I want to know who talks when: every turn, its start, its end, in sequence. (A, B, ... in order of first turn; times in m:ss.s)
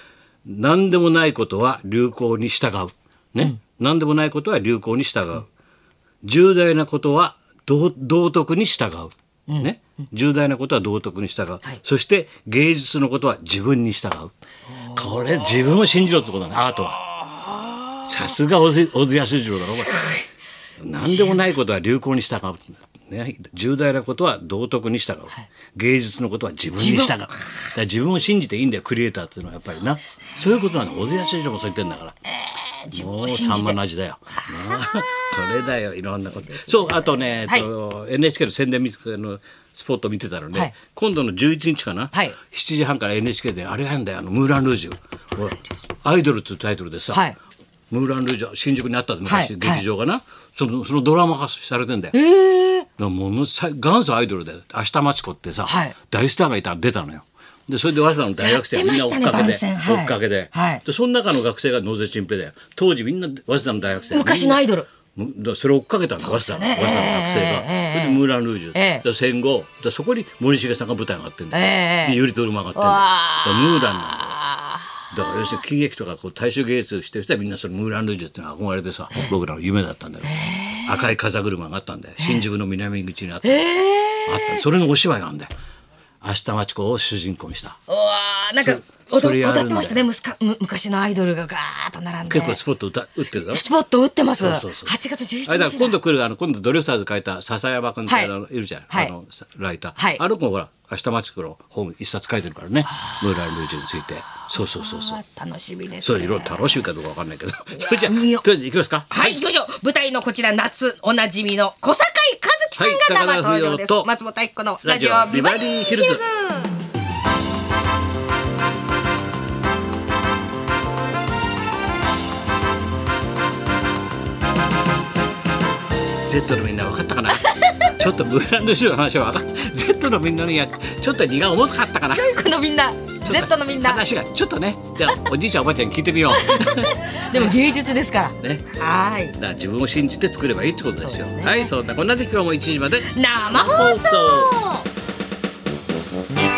0:00.4-0:05.5 A
0:06.2-0:14.3 A
0:14.7-0:16.0 B
0:14.9-0:17.0 A
0:17.0-0:18.3 B
0:18.0-0:20.0 A
0:19.9-0:20.2 B
0:20.8-0:32.2 A
0:21.0-0:21.4 B
0:26.8-0:27.5 B
0:30.4-0:30.8 B
0:32.2-0:33.8 B
0:32.9-0:47.3 A
0:34.4-0:35.0 B
0:36.5-0:37.7 B
0:47.9-0:52.2 A
0:49.2-0:49.8 B
0:52.1-0:52.9 B
0:53.0-1:14.4 A
0:55.6-0:56.0 B
0:58.4-1:00.8 B
1:04.1-1:04.9 B
1:06.2-1:08.2 B
1:08.7-1:09.0 B
1:11.5-1:12.2 B
1:12.7-1:15.6 B
1:15.1-1:23.6 A
1:20.2-1:21.1 B
1:22.2-1:22.4 B
1:23.4-1:24.6 B
1:24.2-1:25.5 A
1:26.2-1:27.8 A
1:27.9-1:32.6 B
1:28.6-1:30.1 A
1:32.3-1:33.7 A
1:33.3-1:36.0 B
1:34.3-1:34.9 A
1:35.5-1:45.2 A
1:38.1-1:38.3 B
1:40.0-1:40.2 B
1:44.5-1:46.9 B
1:46.0-1:49.4 A
1:47.8-1:48.4 B
1:49.1-1:56.8 B
1:52.8-1:54.1 A
1:54.8-1:56.2 A
2:06.2-2:12.3 A
2:07.4-2:07.9 B
2:12.1-2:14.1 B
2:13.2-2:17.5 A
2:16.3-2:19.4 B
2:18.4-2:18.7 A
2:19.4-2:24.6 A
2:21.0-2:21.7 B
2:23.0-2:24.9 B